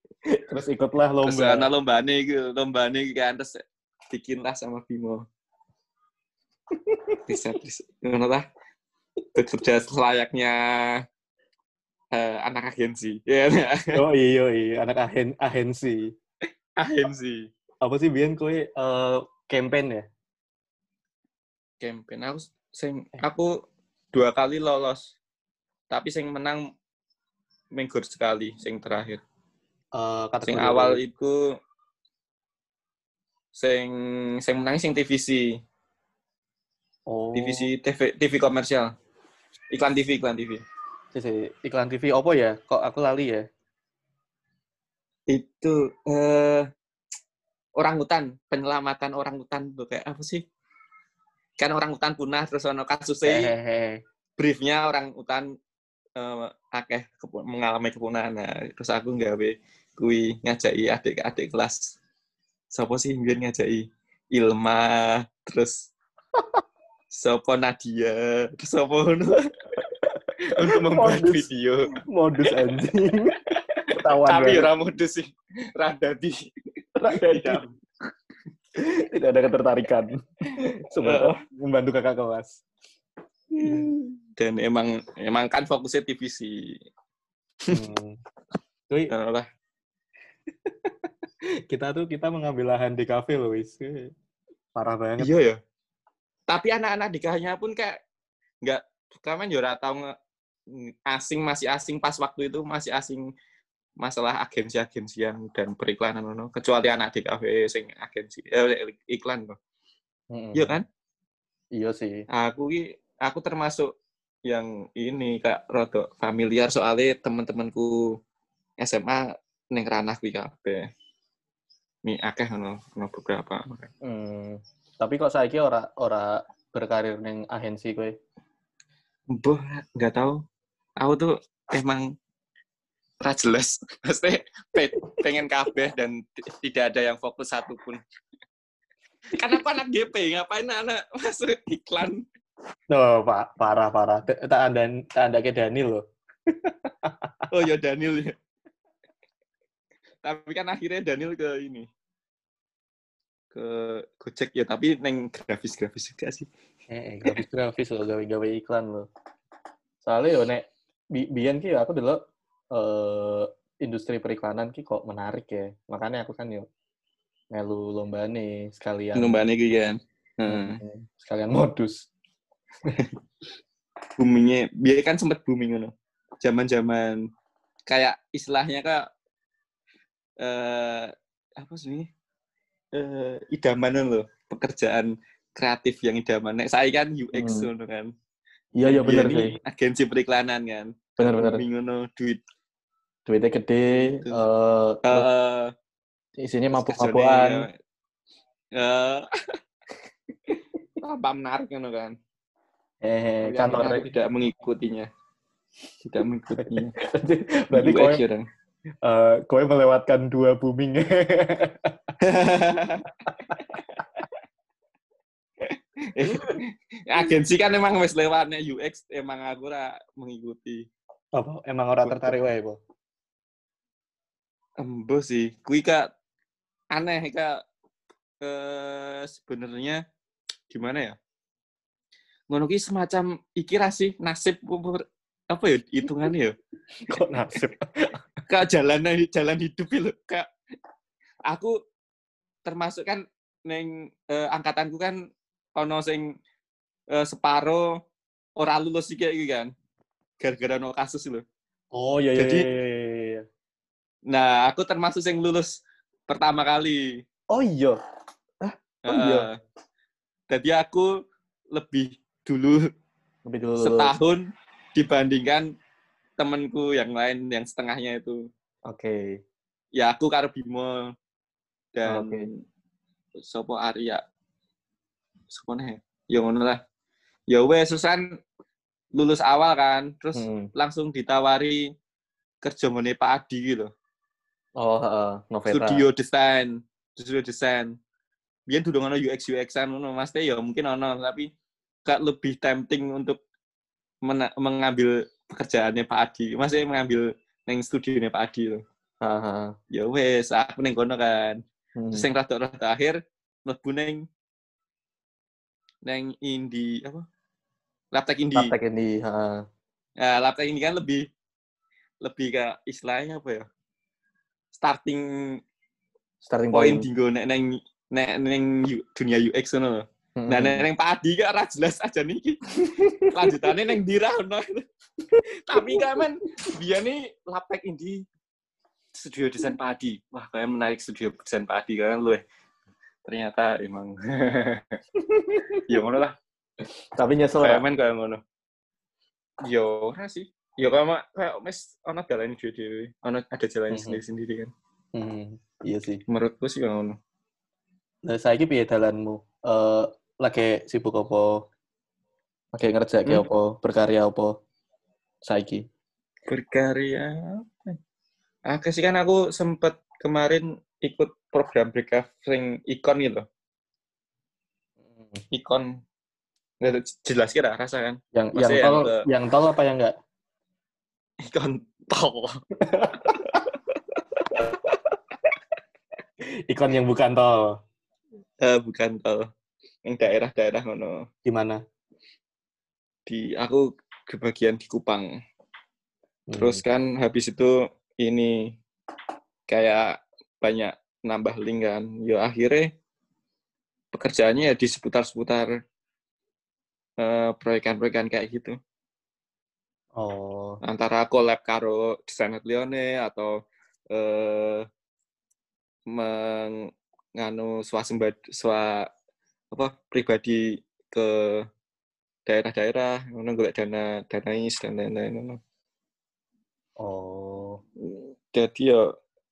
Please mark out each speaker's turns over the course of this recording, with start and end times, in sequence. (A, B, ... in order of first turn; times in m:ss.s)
0:00.5-0:01.7 A
0:01.2-0:03.6 B
0:04.1-0:05.2 B
0:07.3-0:08.4 B
0:09.4-0:11.0 B
0:12.1-0:14.0 B
0:13.9-0:16.1 A
0:16.8-0:17.5 B
0:17.8-0:20.1 A
0:21.8-0:23.5 B
0:24.1-0:25.2 B
0:25.9-0:26.6 B
0:27.8-0:29.2 B
0:30.0-0:31.0 A
0:30.4-0:31.4 B
0:33.5-0:35.5 B
0:37.1-0:37.7 A
0:37.3-0:38.9 B
0:39.7-0:40.6 B
0:41.1-0:43.4 A
0:45.3-0:46.6 B
0:47.8-0:50.4 B
0:51.6-0:53.5 B
0:53.2-0:54.0 A
0:54.4-0:55.5 B
0:56.2-1:02.0 B
1:02.7-1:05.9 B
1:07.1-1:09.5 B
1:10.6-1:12.6 B
1:10.9-1:11.5 A
1:12.1-1:13.4 A
1:13.9-1:14.7 A
1:14.1-1:16.5 B
1:17.0-1:17.6 A
1:17.1-1:17.7 B
1:18.8-1:22.6 A
1:21.0-1:21.4 B
1:23.5-1:26.7 B
1:27.7-1:28.2 A
1:29.1-1:29.5 B
1:31.7-1:34.1 A
1:34.8-1:35.3 A
1:35.2-1:35.6 B
1:36.5-1:38.0 B
1:38.6-1:40.1 B
1:40.7-1:43.3 B
1:44.0-1:49.6 B
1:50.3-1:50.8 A
1:50.5-1:50.8 B
1:51.8-1:52.3 A
1:52.3-1:53.9 B
1:54.5-1:58.1 B
1:58.8-2:00.8 B
2:02.0-2:03.9 B
2:04.0-2:08.2 A
2:09.3-2:10.4 B
2:11.0-2:12.1 B
2:13.2-2:18.0 B
2:19.3-2:22.2 B
2:22.9-2:26.0 A
2:27.5-2:28.3 B
2:30.2-2:31.9 B
2:33.5-2:36.5 B
2:36.9-2:39.1 A
2:40.0-2:42.2 A
2:42.7-2:46.7 A
2:47.5-2:49.4 A
2:49.2-2:50.8 B
2:50.5-2:52.1 A
2:54.2-2:57.2 B
2:57.9-2:59.1 B
3:00.4-3:02.1 B
3:02.9-3:08.1 B
3:07.4-3:07.7 A
3:08.8-3:09.6 A
3:08.8-3:12.4 B
3:11.2-3:11.6 A
3:13.3-3:15.3 A
3:13.9-3:14.4 B
3:15.0-3:15.7 B
3:16.4-3:17.7 A
3:16.7-3:17.7 B
3:18.8-3:19.3 B
3:21.0-3:22.2 B
3:23.0-3:24.1 A
3:23.4-3:25.1 B
3:26.0-3:27.0 B
3:26.6-3:28.2 A
3:27.7-3:28.5 B
3:29.0-3:31.9 A
3:32.2-3:34.2 B
3:35.6-3:40.9 B
3:41.4-3:42.8 A
3:42.0-3:42.3 B
3:44.8-3:46.1 B
3:46.9-3:47.6 B
3:48.4-3:50.0 B
3:50.7-3:51.2 B
3:52.5-3:55.0 B
3:55.5-3:56.6 B
3:57.0-3:57.8 A
3:58.5-4:00.5 B
4:02.7-4:05.2 B
4:05.8-4:06.3 B
4:07.1-4:07.8 B
4:08.6-4:09.7 B
4:10.4-4:11.4 B
4:11.9-4:13.4 A
4:12.4-4:12.6 B
4:14.3-4:17.2 B
4:17.5-4:18.0 A
4:18.6-4:19.5 A
4:19.1-4:19.6 B
4:20.5-4:21.1 B
4:21.7-4:22.8 B
4:23.5-4:24.2 A
4:23.8-4:25.7 B
4:26.4-4:28.5 B
4:28.9-4:29.4 A
4:29.9-4:31.1 B
4:32.0-4:32.4 B
4:32.1-4:32.4 A
4:33.4-4:34.2 B
4:35.5-4:36.8 B
4:37.5-4:38.3 B
4:39.1-4:41.8 B
4:40.4-4:40.7 A
4:42.6-4:43.9 B
4:44.8-4:46.1 A
4:45.7-4:47.9 B
4:48.7-4:51.5 B
4:52.1-4:53.4 B
4:54.2-4:58.8 B
4:59.2-4:59.7 A
4:59.9-5:01.6 B
5:02.0-5:02.3 A
5:02.1-5:04.2 B
5:06.0-5:07.3 B
5:08.1-5:08.7 B
5:08.5-5:09.6 A
5:10.2-5:11.3 B
5:12.2-5:13.6 B
5:14.8-5:15.2 B
5:16.4-5:17.1 A
5:16.7-5:24.8 B
5:20.4-5:20.9 A
5:22.8-5:23.3 A
5:25.7-5:28.2 B
5:29.2-5:32.4 B
5:33.3-5:35.0 B
5:35.4-5:35.8 A
5:35.9-5:36.4 B
5:37.2-5:37.8 A
5:37.6-5:38.4 B
5:39.6-5:44.7 B
5:43.9-5:44.2 A
5:45.2-5:46.2 A
5:46.3-5:47.2 B
5:48.3-5:51.6 A
5:52.7-5:54.6 A
5:55.4-5:55.9 A
5:56.5-5:58.0 B
5:58.7-6:03.4 B
6:05.1-6:05.4 A
6:05.5-6:06.0 B
6:06.8-6:09.2 B
6:08.4-6:10.1 A
6:11.5-6:12.6 B
6:12.9-6:13.6 A
6:16.7-6:17.8 A
6:18.6-6:19.5 B
6:20.1-6:21.3 B
6:21.4-6:21.8 A
6:23.3-6:25.3 B
6:26.5-6:26.8 A
6:26.6-6:28.8 B
6:29.7-6:32.9 B
6:34.1-6:35.7 B
6:37.2-6:38.8 B
6:40.2-6:40.8 A
6:40.8-6:43.5 B
6:44.1-6:44.8 B
6:46.1-6:46.9 B
6:47.4-6:49.1 B
6:49.7-6:51.6 B
6:52.5-6:55.6 B
6:57.0-6:57.8 A
6:58.0-6:59.0 B